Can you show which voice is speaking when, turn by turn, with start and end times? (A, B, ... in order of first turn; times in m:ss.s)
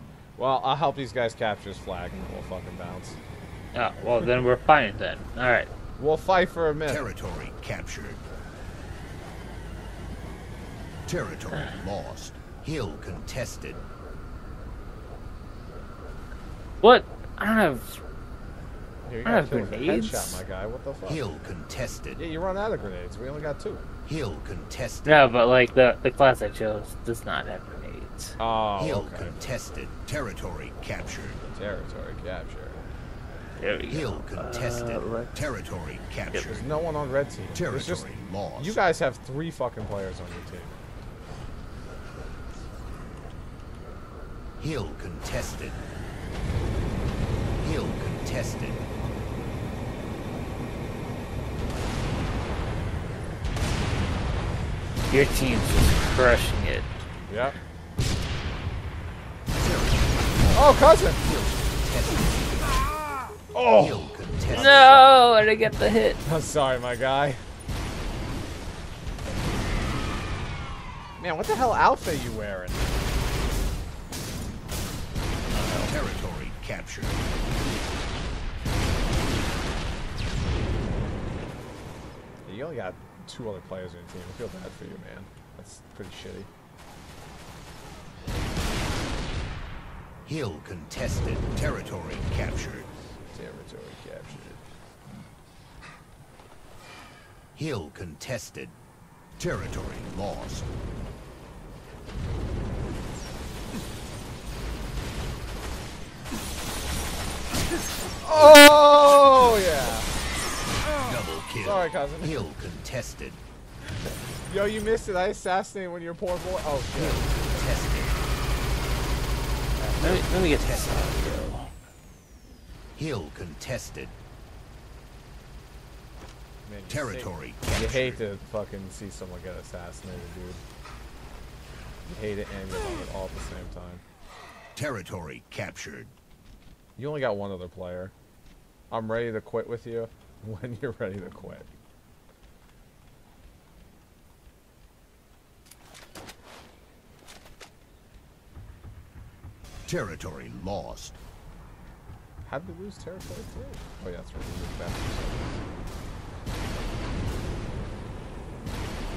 0:00.4-0:03.2 A
0:03.8-0:05.7 B
0:06.0-0:07.1 A
0:06.9-0:08.2 C
0:11.1-0:13.8 C
0:16.8-0:18.0 B
0:19.0-0:21.2 A
0:19.2-0:20.4 B
0:21.1-0:22.2 C
0:22.2-0:23.8 A
0:24.0-0:25.3 C
0:25.1-0:28.4 B
0:28.4-0:29.4 A
0:28.8-0:31.4 C
0:31.5-0:32.8 A
0:33.6-0:35.3 B
0:33.9-0:36.6 C
0:36.5-0:40.8 A
0:37.5-0:38.8 C
0:44.6-0:45.8 C
0:47.6-0:48.8 C
0:55.1-0:56.9 B
0:57.3-0:57.6 A
0:59.5-1:02.9 C
1:00.5-1:01.2 A
1:03.5-1:05.0 A
1:03.8-1:05.2 C
1:04.5-1:06.2 B
1:06.2-1:07.4 A
1:11.2-1:12.9 A
1:15.5-1:15.9 B
1:15.7-1:17.3 C
1:22.5-1:26.5 A
1:30.3-1:32.9 C
1:33.3-1:34.6 A
1:37.6-1:38.8 C
1:39.4-1:40.7 C
1:48.2-1:50.1 A
1:51.0-1:53.4 C
1:51.6-1:52.4 A
1:54.5-1:57.6 A
1:57.0-1:58.3 C
1:59.8-2:00.2 A
2:00.0-2:01.7 B
2:00.6-2:01.2 C
2:03.0-2:04.2 C
2:06.6-2:10.6 A
2:06.9-2:08.2 C
2:12.1-2:14.0 A
2:14.8-2:16.1 C
2:17.0-2:18.1 A
2:18.9-2:21.7 A
2:29.9-2:31.2 C
2:32.4-2:35.6 A